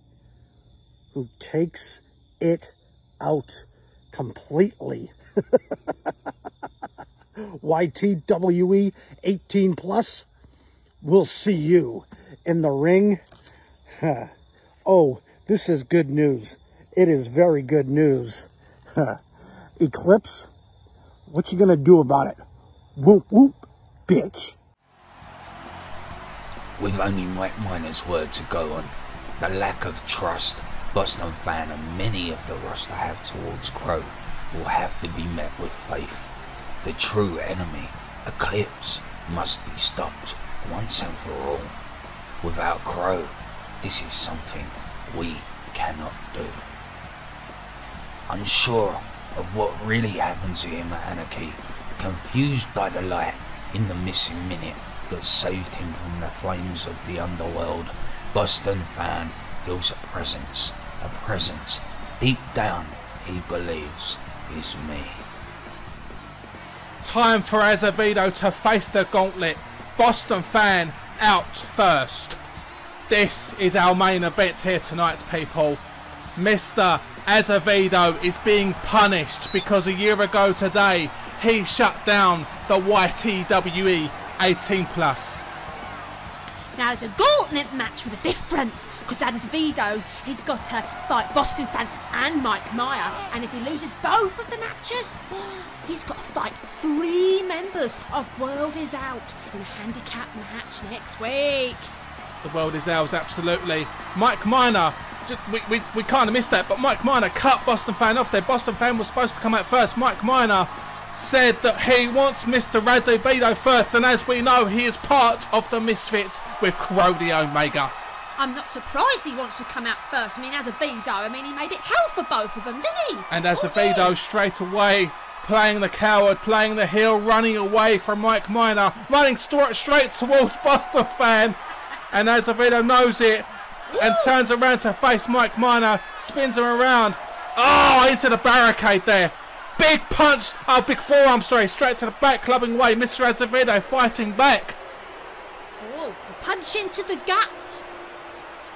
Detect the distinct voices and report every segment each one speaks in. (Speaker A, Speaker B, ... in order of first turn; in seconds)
Speaker A: 1.1-5.1, 7.6-10.2, 11.0-13.2, 14.0-14.3, 14.8-19.2, 19.8-20.5, 21.3-22.4, 22.9-24.6
Speaker B: 26.8-41.8, 42.4-46.6, 48.3-65.2
Speaker C: 67.0-72.4, 73.1-75.8, 76.3-85.4, 102.4-117.9, 123.3-131.6, 132.1-144.8
Speaker D: 86.8-101.9, 118.4-124.1, 133.9-134.3, 145.8-147.8